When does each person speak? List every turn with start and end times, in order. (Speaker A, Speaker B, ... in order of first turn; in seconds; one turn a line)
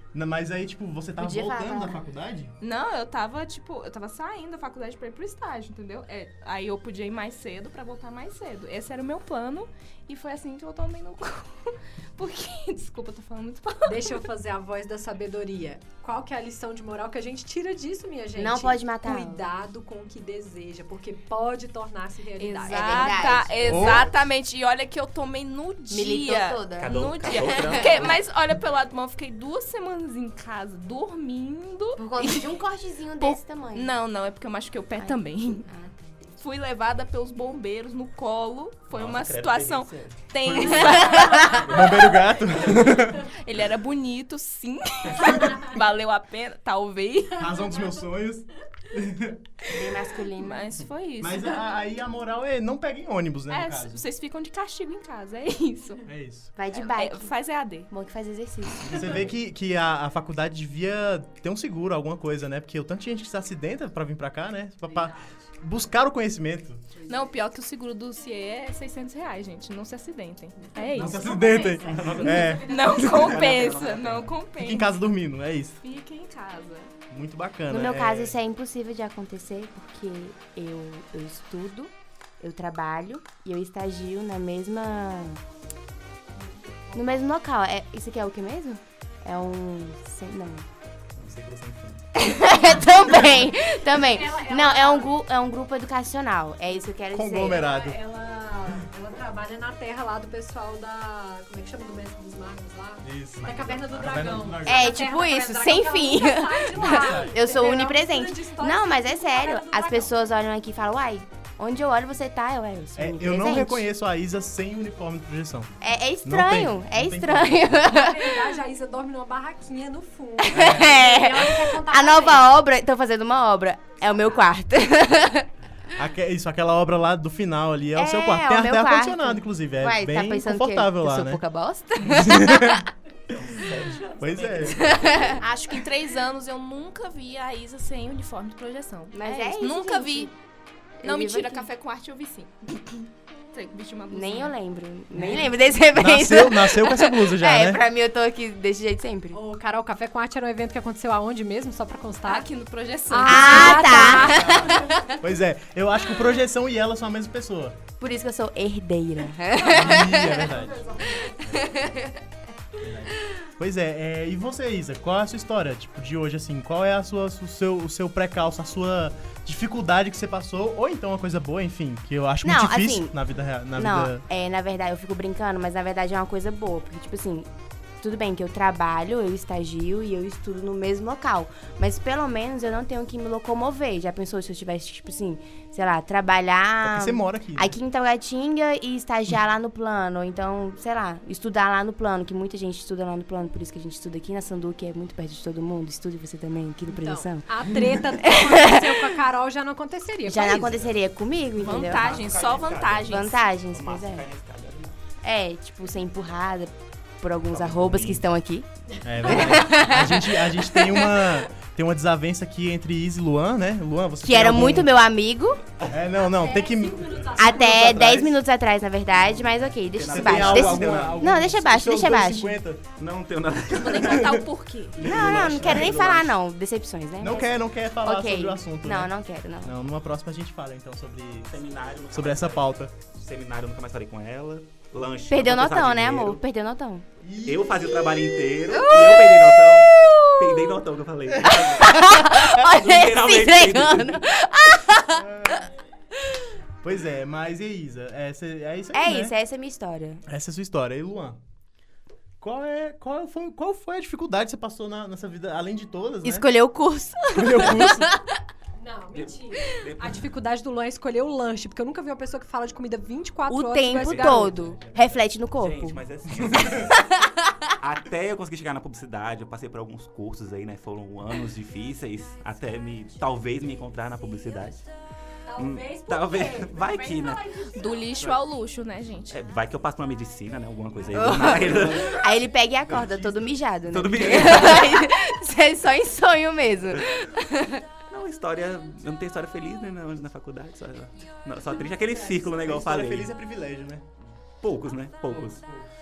Speaker A: 0.1-2.5
Speaker B: 1.2-2.0
Speaker C: 2.6-14.2
Speaker D: 13.8-23.4
Speaker B: 18.4-19.5
Speaker C: 22.4-32.6
Speaker B: 22.6-23.9
Speaker A: 23.6-24.1
Speaker B: 25.9-28.1
Speaker E: 26.7-28.2
Speaker B: 32.0-33.9
Speaker C: 33.1-35.7
Speaker B: 34.9-36.3
Speaker C: 36.4-42.1
Speaker E: 38.9-42.9
Speaker A: 40.4-43.3
Speaker B: 40.9-41.6
Speaker D: 41.2-41.6
Speaker C: 43.0-47.5
Speaker A: 45.2-45.6
Speaker A: 47.3-49.7
Speaker D: 47.6-47.9
Speaker B: 49.6-50.7
Speaker C: 50.3-51.6
Speaker A: 51.2-54.0
Speaker C: 53.5-56.0
Speaker A: 56.0-56.5
Speaker B: 56.5-57.3
Speaker C: 56.7-57.9
Speaker B: 57.9-59.3
Speaker A: 58.8-66.9
Speaker C: 67.1-74.9
Speaker A: 70.9-73.5
Speaker E: 71.8-74.4
Speaker A: 74.6-75.8
Speaker C: 75.8-76.9
Speaker A: 77.1-78.3
Speaker B: 77.7-85.4
Speaker D: 86.4-87.3
Speaker B: 86.9-90.7
Speaker E: 91.1-92.0
Speaker B: 92.1-97.6
Speaker D: 94.1-95.1
Speaker A: 97.1-98.0
Speaker D: 97.4-110.1
Speaker A: 103.0-104.9
Speaker B: 104.6-113.8
Speaker A: 106.7-107.4
Speaker A: 112.9-115.7
Speaker B: 115.8-118.5
Speaker A: 116.2-117.7
Speaker D: 117.8-122.5
Speaker B: 120.4-125.5
Speaker A: 120.5-121.0
Speaker A: 126.0-131.4
Speaker B: 127.9-132.8
Speaker A: 132.2-132.8
Speaker E: 133.3-135.4
Speaker A: 134.2-134.9
Speaker B: 134.7-135.4
Speaker C: 135.4-140.3
Speaker B: 139.1-140.3
Speaker C: 141.0-144.5
Speaker B: 141.0-141.7
Speaker B: 144.1-149.4
Speaker A: 145.9-147.8
Speaker D: 149.3-152.5
Speaker C: 152.2-154.2
Speaker D: 153.1-154.8
Speaker B: 153.2-155.1
Speaker A: 153.7-157.8
Speaker B: 158.0-160.5
Speaker A: 159.6-160.9
Speaker D: 159.7-161.3
Speaker B: 161.3-162.2
Speaker A: 162.8-174.2
Speaker B: 172.4-173.2
Speaker B: 173.7-177.5
Speaker B: 178.0-197.5
Speaker A: 186.8-187.8
Speaker D: 196.9-200.9
Speaker B: 198.2-199.1
Speaker B: 200.2-202.1
Speaker C: 201.6-203.4
Speaker E: 201.7-205.0
Speaker B: 203.0-204.2
Speaker B: 205.2-208.7
Speaker E: 207.5-208.2
Speaker A: 209.0-214.9
Speaker D: 209.1-209.6
Speaker B: 209.2-211.3
Speaker B: 214.2-215.6
Speaker A: 215.9-217.7
Speaker D: 216.1-218.1
Speaker B: 217.4-222.6
Speaker E: 217.6-218.3
Speaker E: 219.2-221.3
Speaker A: 220.1-222.8
Speaker E: 222.9-224.3
Speaker C: 223.8-225.0
Speaker A: 223.9-226.2
Speaker E: 225.0-226.3
Speaker B: 225.0-229.7
Speaker A: 227.2-231.6
Speaker E: 231.5-236.4
Speaker A: 232.1-232.9
Speaker B: 235.3-237.0
Speaker A: 237.2-238.0
Speaker E: 237.4-244.2
Speaker B: 237.9-240.8
Speaker A: 241.4-241.8
Speaker B: 241.4-245.6
Speaker A: 245.2-245.7
Speaker A: 246.8-249.3
Speaker B: 248.9-250.2
Speaker A: 250.2-251.4
Speaker A: 252.4-256.4
Speaker B: 256.2-258.4
Speaker A: 257.3-258.1
Speaker D: 258.8-264.6
Speaker E: 259.1-260.3
Speaker B: 263.5-266.0
Speaker A: 264.0-265.1
Speaker E: 264.1-264.4
Speaker E: 265.5-267.1
Speaker A: 266.4-266.8
Speaker E: 267.8-274.9
Speaker D: 275.5-278.1
Speaker E: 275.6-277.4
Speaker C: 277.6-279.4
Speaker E: 279.3-282.2
Speaker B: 281.1-287.8
Speaker A: 281.3-282.2
Speaker A: 282.8-283.6
Speaker E: 283.8-285.1
Speaker E: 288.1-293.3
Speaker A: 292.0-294.1
Speaker E: 294.6-295.6
Speaker A: 295.3-295.9